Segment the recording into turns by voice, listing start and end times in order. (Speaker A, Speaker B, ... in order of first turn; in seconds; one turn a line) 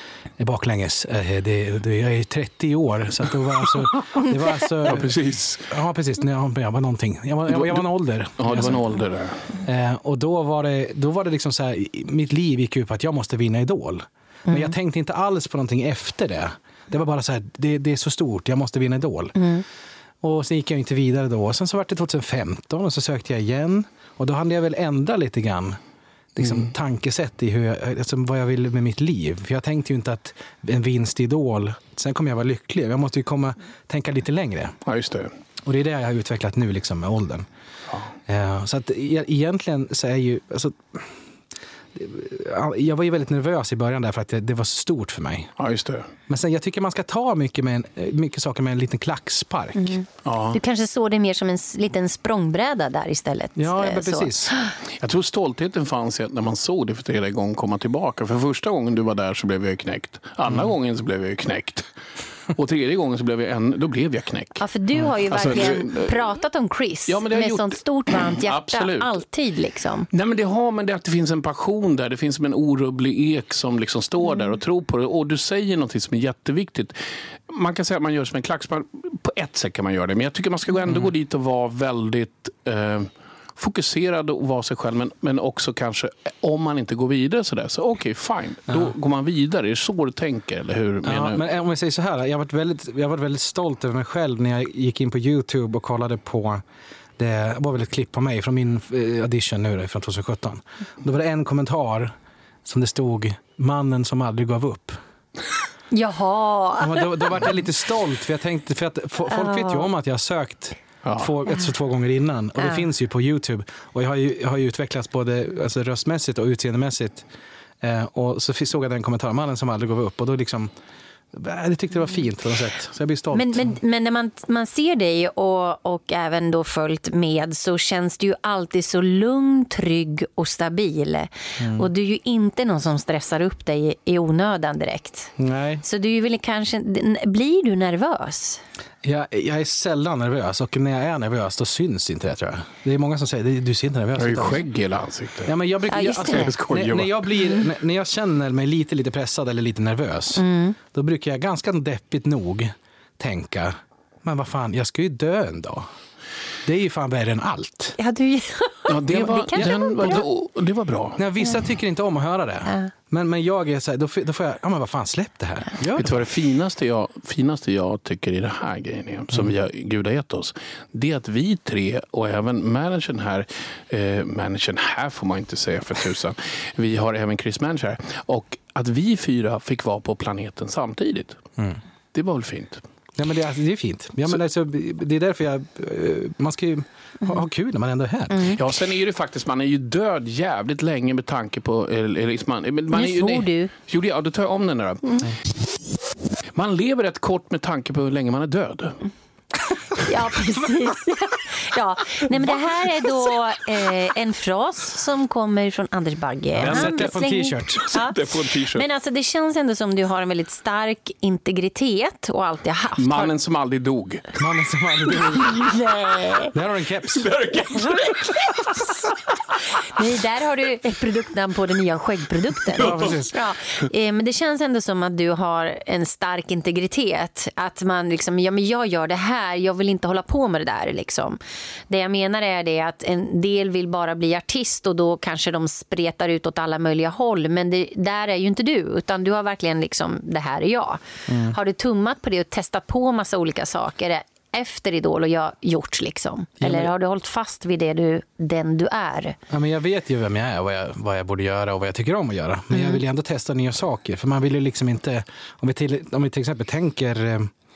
Speaker A: 0.4-8.8
Speaker B: 4.8-5.7
Speaker B: 7.5-7.8
Speaker B: 8.4-9.4
Speaker A: 9.6-19.4
Speaker C: 14.5-14.7
Speaker C: 19.4-19.6
Speaker A: 20.2-25.8
Speaker A: 26.3-34.7
Speaker B: 26.4-26.6
Speaker B: 34.9-35.3
Speaker A: 35.6-37.5
Speaker A: 38.3-41.1
Speaker A: 41.9-45.5
Speaker B: 45.6-46.1
Speaker A: 46.3-50.0
Speaker C: 49.8-54.7
Speaker B: 50.2-50.6
Speaker A: 53.6-54.5
Speaker B: 55.0-61.9
Speaker B: 62.5-64.6
Speaker C: 64.6-70.1
Speaker B: 65.3-66.3
Speaker B: 67.1-69.2
Speaker B: 70.1-77.0
Speaker B: 77.5-91.4
Speaker A: 91.0-96.6
Speaker A: 97.2-102.1
Speaker A: 102.6-105.0
Speaker C: 105.9-107.1
Speaker A: 106.8-117.2
Speaker C: 109.3-109.9
Speaker B: 111.0-111.3
Speaker A: 117.8-120.7
Speaker A: 121.3-123.7
Speaker C: 123.3-135.3
Speaker A: 131.6-131.9
Speaker A: 135.4-135.8
Speaker C: 135.8-138.6
Speaker A: 139.0-144.6
Speaker B: 144.2-145.5
Speaker A: 145.4-155.9
Speaker C: 145.9-146.5
Speaker B: 146.1-147.2
Speaker C: 150.4-150.8
Speaker A: 156.6-157.9
Speaker C: 158.0-160.2
Speaker B: 158.9-161.2
Speaker A: 159.4-160.2
Speaker A: 161.2-166.1
Speaker C: 162.7-162.9
Speaker B: 165.9-181.4
Speaker B: 182.1-182.8
Speaker A: 183.2-188.6
Speaker C: 188.3-188.6
Speaker B: 188.6-195.1
Speaker C: 192.9-193.7
Speaker B: 196.5-199.0
Speaker C: 200.0-208.2
Speaker A: 206.6-207.8
Speaker B: 206.6-207.1
Speaker B: 207.8-208.8
Speaker C: 208.7-213.3
Speaker B: 213.0-214.3
Speaker A: 214.3-215.4
Speaker C: 215.3-216.5
Speaker A: 216.5-217.3
Speaker B: 217.2-218.3
Speaker C: 217.8-218.1
Speaker C: 219.8-241.0
Speaker A: 222.8-223.3
Speaker B: 222.8-223.1
Speaker A: 241.3-241.6
Speaker C: 241.5-249.4
Speaker A: 246.6-246.9
Speaker A: 249.5-257.5
Speaker C: 252.7-253.0